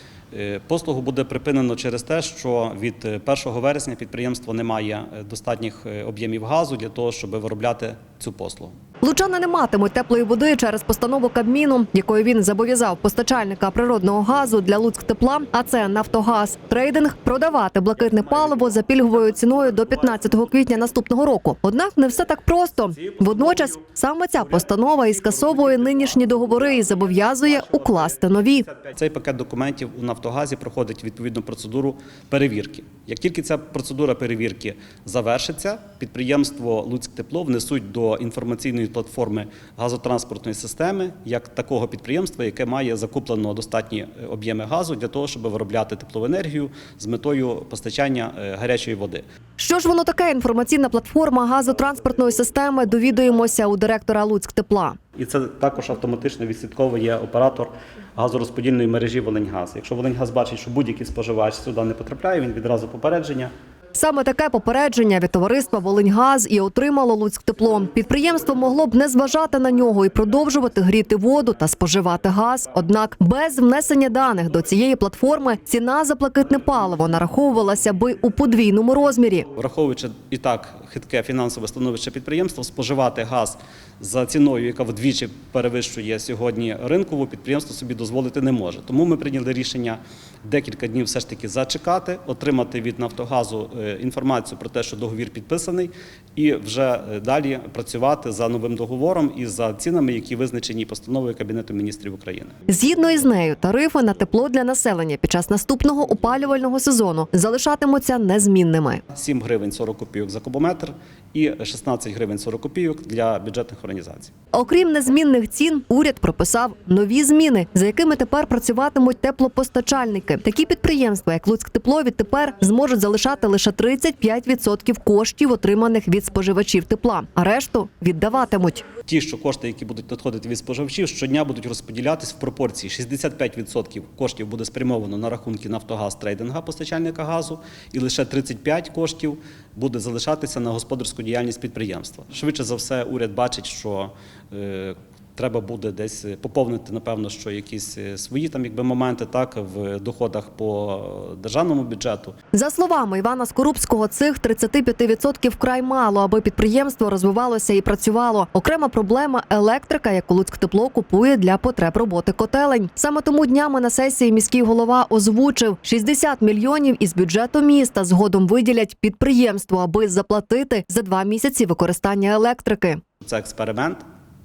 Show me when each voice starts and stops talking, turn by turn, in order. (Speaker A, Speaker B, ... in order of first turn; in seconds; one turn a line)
Speaker A: 0.3-8.7
Speaker B: 9.0-28.6
Speaker A: 18.0-21.0
Speaker A: 22.9-49.2
Speaker B: 49.6-55.0
Speaker A: 51.6-53.5
Speaker A: 55.2-63.5
Speaker B: 63.9-79.5
Speaker A: 79.6-102.5
Speaker B: 102.7-109.0
Speaker A: 109.1-114.3
Speaker B: 114.5-128.9
Speaker A: 129.1-152.3
Speaker B: 152.5-173.0
Speaker A: 173.2-174.0